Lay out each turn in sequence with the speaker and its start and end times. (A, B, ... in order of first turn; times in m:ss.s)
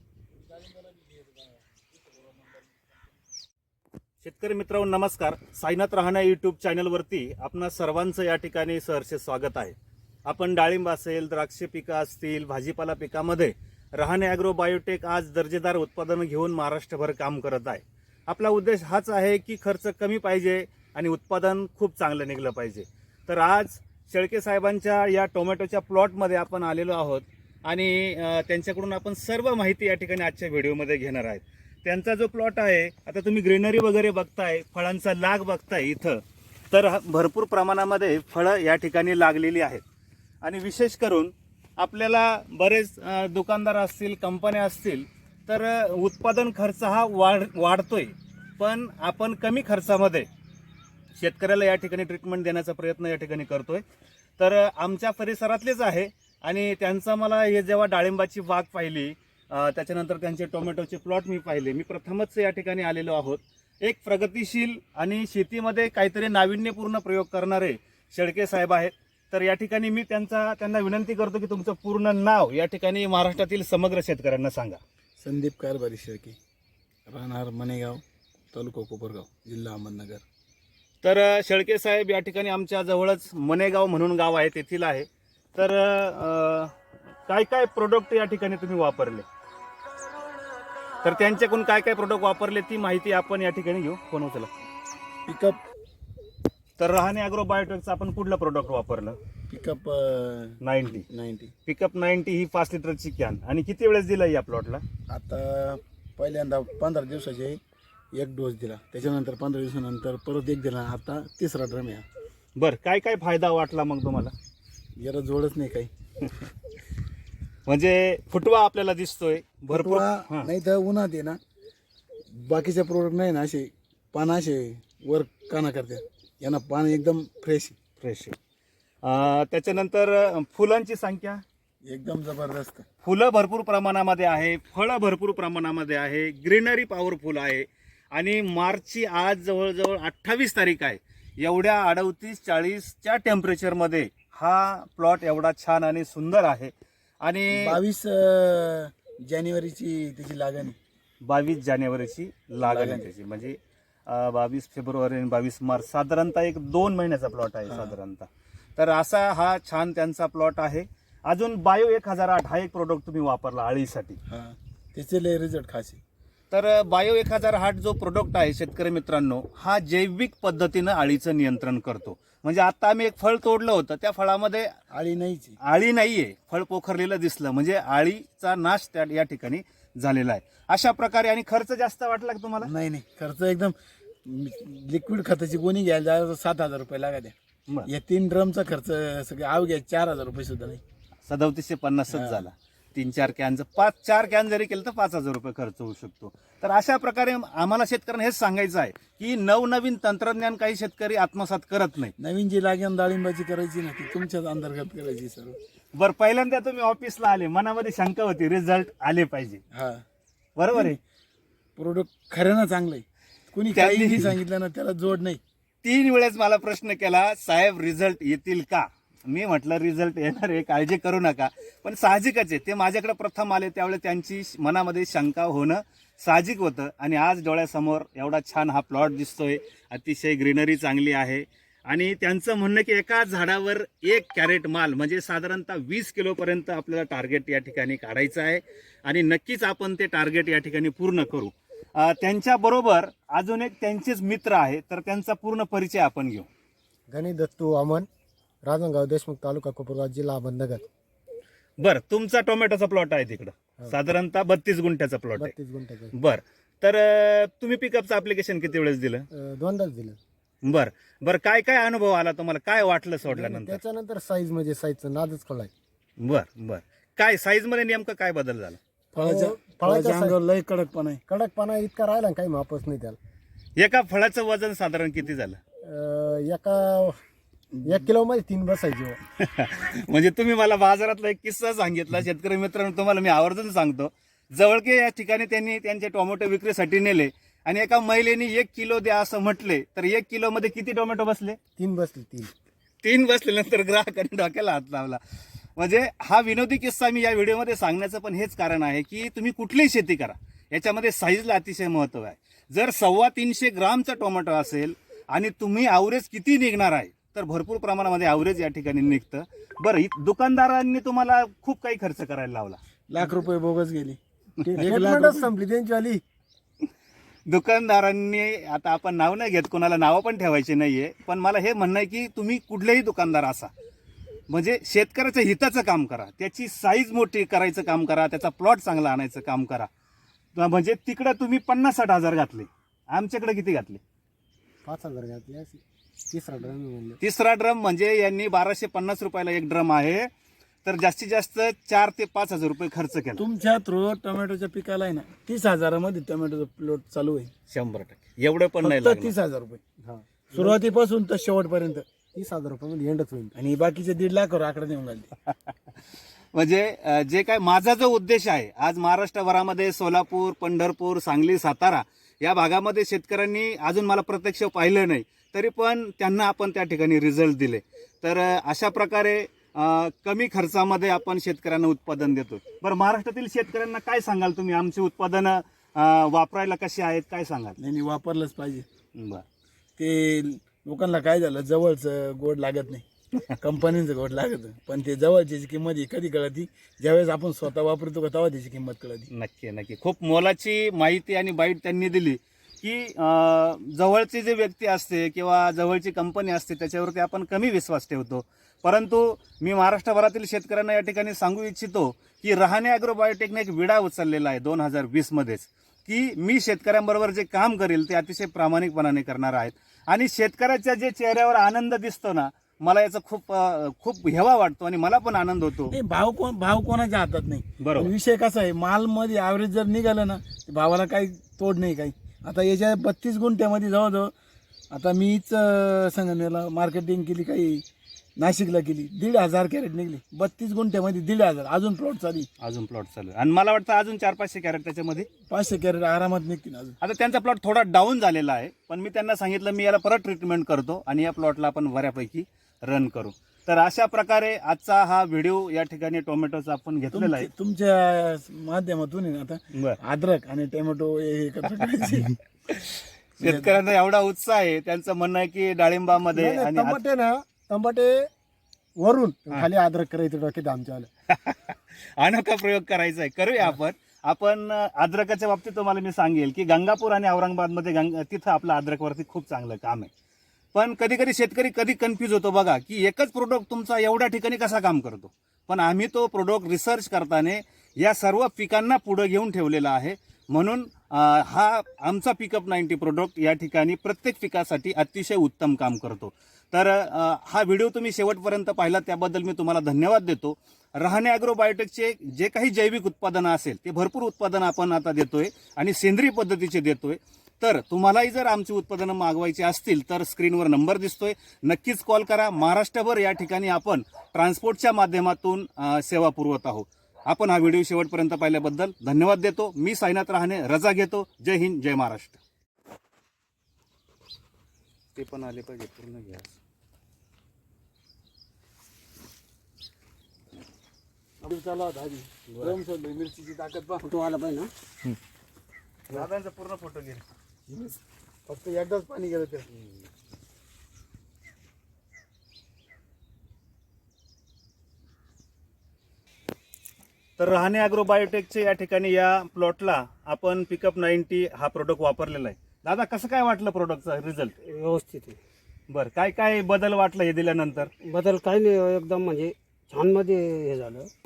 0:00.4-0:01.4 A
0:02.1-0:02.8 A
0:04.2-0:39.8 B
0:40.4-0:50.3 B
0:51.1-0:53.8 B
0:54.4-1:14.8 B
1:15.2-1:16.4 A
1:17.1-1:18.0 A
1:18.5-1:20.2 A
1:21.0-1:26.7 B
1:27.3-1:29.2 B
1:31.0-1:34.6 B
1:35.2-1:35.6 A
1:36.8-1:39.2 B
1:39.5-1:41.5 A
1:40.6-1:41.0 B
1:41.6-1:44.8 B
1:45.1-1:47.6 A
1:48.1-1:52.0 A
1:52.6-1:54.3 B
1:55.0-1:55.9 A
1:57.7-2:00.5 B
1:59.7-2:01.4 A
2:02.3-2:07.8 A
2:08.0-2:08.3 B
2:09.0-2:11.4 B
2:11.8-2:12.8 A
2:13.0-2:27.8 B
2:27.5-2:30.8 A
2:31.2-2:44.2 B
2:32.6-2:33.1 A
2:37.7-2:38.0 A
2:44.3-2:46.0 A
2:46.5-2:54.7 B
2:54.9-2:55.6 A
2:55.6-3:02.7 B
3:02.6-3:03.7 A
3:04.2-3:07.3 A
3:07.8-3:10.8 A
3:11.2-3:22.1 B
3:12.1-3:12.4 A
3:22.2-3:25.6 A
3:25.9-3:29.6 B
3:29.7-3:30.0 A
3:30.6-3:31.0 B
3:31.8-3:35.4 A
3:33.7-3:34.4 B
3:35.8-4:06.5 B
4:07.1-4:08.1 C
4:08.6-4:10.8 C
4:11.8-4:15.5 B
4:15.4-4:16.1 C
4:16.1-4:19.3 B
4:19.3-4:20.2 C
4:20.6-4:23.8 B
4:23.3-4:25.7 C
4:26.2-4:28.8 B
4:29.1-4:31.2 A
4:29.2-4:30.4 C
4:31.3-4:33.2 C
4:33.8-4:35.6 B
4:35.8-4:37.2 C
4:37.7-4:38.1 A
4:37.8-4:39.2 C
4:39.4-4:51.6 B
4:51.8-4:52.5 C
4:53.0-4:55.2 B
4:55.8-5:12.8 B
5:13.1-5:15.5 A
5:14.6-5:16.2 C
5:17.5-5:23.7 B
5:24.5-5:29.9 B
5:30.6-5:34.0 B
5:34.8-5:37.2 C
5:37.2-5:40.3 B
5:40.8-5:43.4 B
5:43.4-5:47.5 A
5:47.7-5:49.3 B
5:48.8-5:49.8 A
5:50.0-5:50.8 C
5:50.5-5:52.0 A
5:52.3-5:53.5 C
5:53.5-5:55.3 A
5:55.5-5:55.8 B
5:56.5-6:17.8 B
6:17.8-6:18.8 A
6:19.1-6:19.4 B
6:20.0-6:29.3 A
6:29.3-6:55.9 B
6:55.9-7:04.3 A
6:57.8-6:58.1 B
7:04.9-7:07.8 A
7:08.4-7:12.5 A
7:12.6-7:15.3 B
7:15.5-7:17.0 A
7:17.0-7:27.5 B
7:27.1-7:32.4 A
7:29.7-7:30.0 B
7:33.4-7:37.0 B
7:33.4-7:33.8 A
7:36.3-7:38.3 C
7:39.0-7:41.1 C
7:41.3-7:50.1 B
7:50.7-8:32.4 B
8:35.1-8:36.6 B
8:41.4-8:44.1 A
8:42.5-8:42.8 B
8:44.0-8:44.7 D
8:46.1-8:47.2 B
8:47.7-8:49.6 A
8:57.4-9:04.5 B
9:04.6-9:05.4 D
9:05.9-9:07.9 B
9:08.0-9:11.1 D